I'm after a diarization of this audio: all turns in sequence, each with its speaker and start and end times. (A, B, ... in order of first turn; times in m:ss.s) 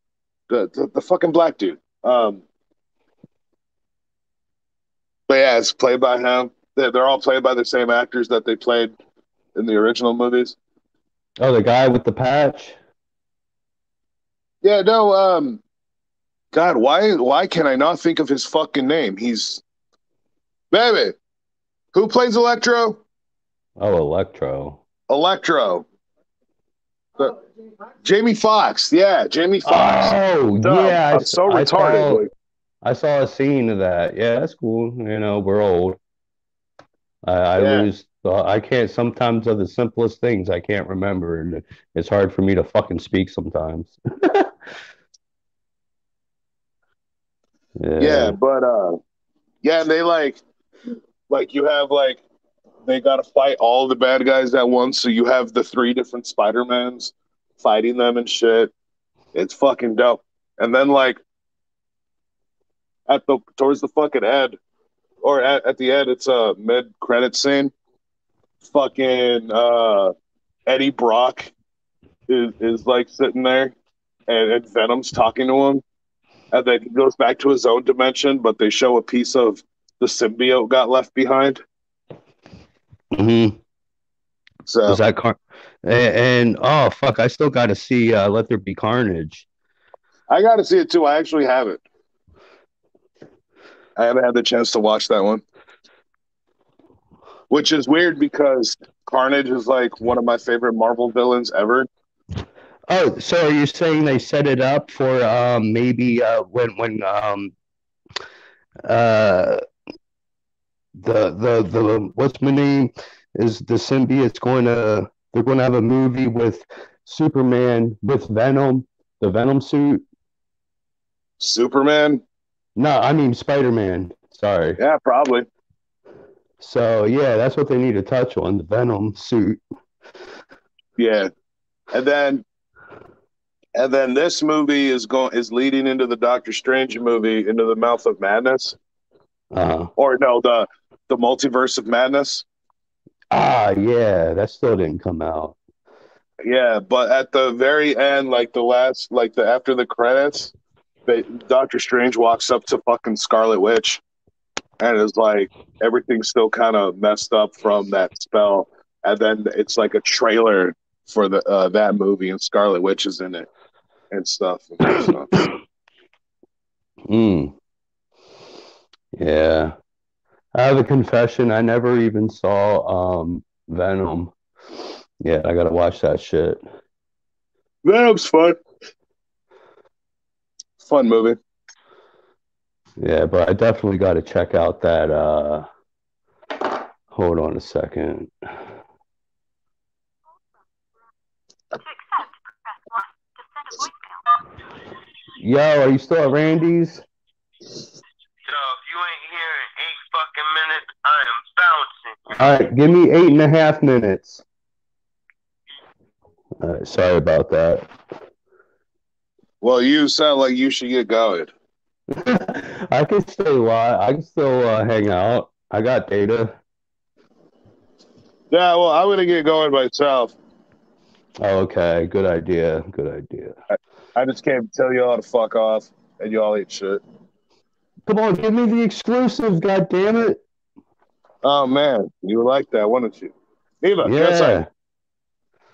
0:00.5-0:02.4 A
0:05.3-0:09.0 A
0:09.6-0:10.6 A
0:11.4-0:12.8 B
0:14.6-0:15.6 A
0:16.5-0:19.6 A
0:20.7-0:21.2 A
0:21.9-0:23.0 A
0:23.8-0:24.8 B
0:25.1-0:25.9 A
0:28.0-0:32.3 A
0:29.6-0:32.2 B
0:32.8-0:36.0 B
0:37.2-0:44.5 B
0:37.6-0:37.9 A
0:47.8-0:48.4 B
0:48.0-0:49.0 A
0:49.6-0:50.4 A
0:51.3-0:52.2 A
0:52.8-0:58.7 A
0:59.3-1:01.2 A
1:03.1-1:04.6 A
1:05.2-1:07.7 A
1:08.6-1:10.1 A
1:10.7-1:11.5 A
1:12.3-1:13.7 A
1:14.3-1:15.8 A
1:16.5-1:21.6 A
1:23.1-1:23.6 B
1:24.7-1:25.0 A
1:24.9-1:29.5 B
1:30.3-1:31.8 A
1:34.0-1:35.4 A
1:37.5-1:41.9 A
1:42.9-1:47.5 B
1:48.9-1:49.6 B
1:51.0-2:00.0 B
2:01.4-2:02.2 A
2:02.8-2:04.8 B
2:04.8-2:05.5 A
2:06.6-2:09.6 B
2:11.0-2:11.3 A
2:11.9-2:12.4 A
2:13.8-2:18.8 A
2:19.5-2:19.9 B
2:20.0-2:22.4 A
2:23.3-2:25.6 B
2:26.4-2:30.5 A
2:31.1-2:34.0 A
2:34.8-2:43.5 A
2:44.1-2:45.3 A
2:47.1-2:47.5 B
2:49.1-2:49.8 B
2:50.6-2:54.3 B
2:55.2-2:56.6 B
2:57.8-2:58.6 A
3:00.8-3:01.4 A
3:03.0-3:05.6 B
3:07.1-3:08.3 B
3:15.4-3:17.0 B
3:18.4-3:22.4 C
3:22.4-3:24.4 B
3:26.6-3:27.9 B
3:29.6-3:31.5 A
3:32.1-3:36.6 B
3:38.5-3:40.4 A
3:41.4-3:43.6 B
3:44.2-3:47.0 A
3:48.1-3:50.4 B
3:51.4-3:54.6 A
3:54.0-3:54.7 B